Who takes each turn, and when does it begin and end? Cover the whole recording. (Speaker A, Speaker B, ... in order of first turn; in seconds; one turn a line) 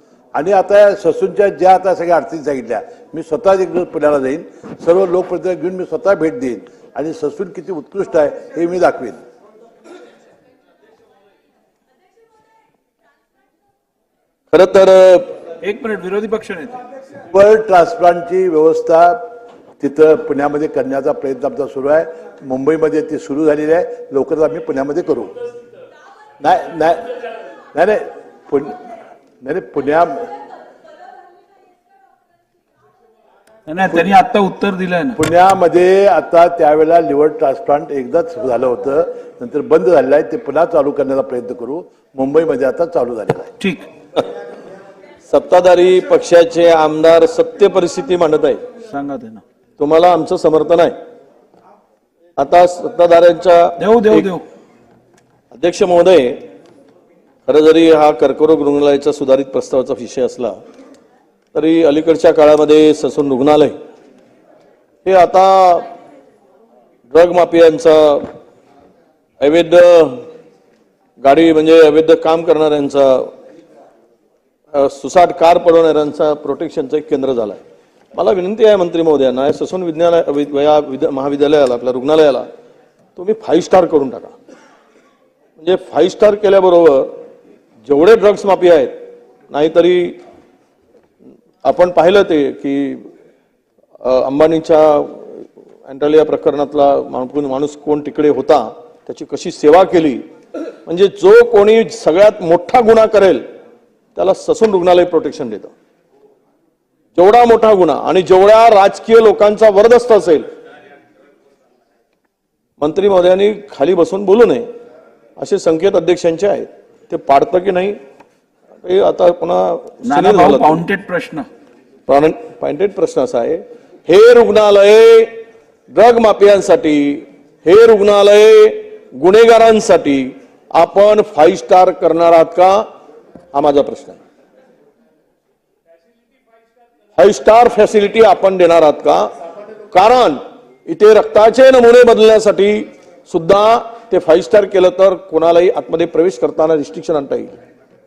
Speaker A: 0.3-9.2
Speaker B: 14.5-15.3
Speaker C: 15.6-16.8
Speaker A: 17.3-25.3
Speaker A: 26.4-27.1
Speaker A: 27.7-28.8
Speaker A: 29.4-30.3
Speaker C: 33.7-35.2
Speaker A: 35.1-43.5
Speaker C: 43.6-43.9
Speaker B: 45.3-48.6
Speaker C: 48.9-49.4
Speaker B: 49.8-51.0
Speaker B: 52.4-54.3
Speaker C: 53.8-54.4
Speaker B: 55.5-56.5
Speaker B: 57.5-60.6
Speaker B: 61.5-63.8
Speaker B: 65.0-65.9
Speaker B: 67.1-68.3
Speaker B: 69.4-70.3
Speaker B: 71.2-73.3
Speaker B: 74.7-77.6
Speaker B: 78.1-82.5
Speaker B: 83.2-84.3
Speaker B: 85.6-87.2
Speaker B: 87.8-90.2
Speaker B: 91.6-93.1
Speaker B: 94.0-100.3
Speaker B: 100.8-103.5
Speaker B: 104.1-105.7
Speaker B: 107.1-110.5
Speaker B: 112.8-114.7
Speaker B: 115.4-118.0
Speaker B: 118.8-120.8
Speaker C: 120.0-121.5
Speaker B: 122.1-132.9
Speaker B: 133.5-134.2
Speaker B: 137.2-139.3
Speaker B: 139.9-147.6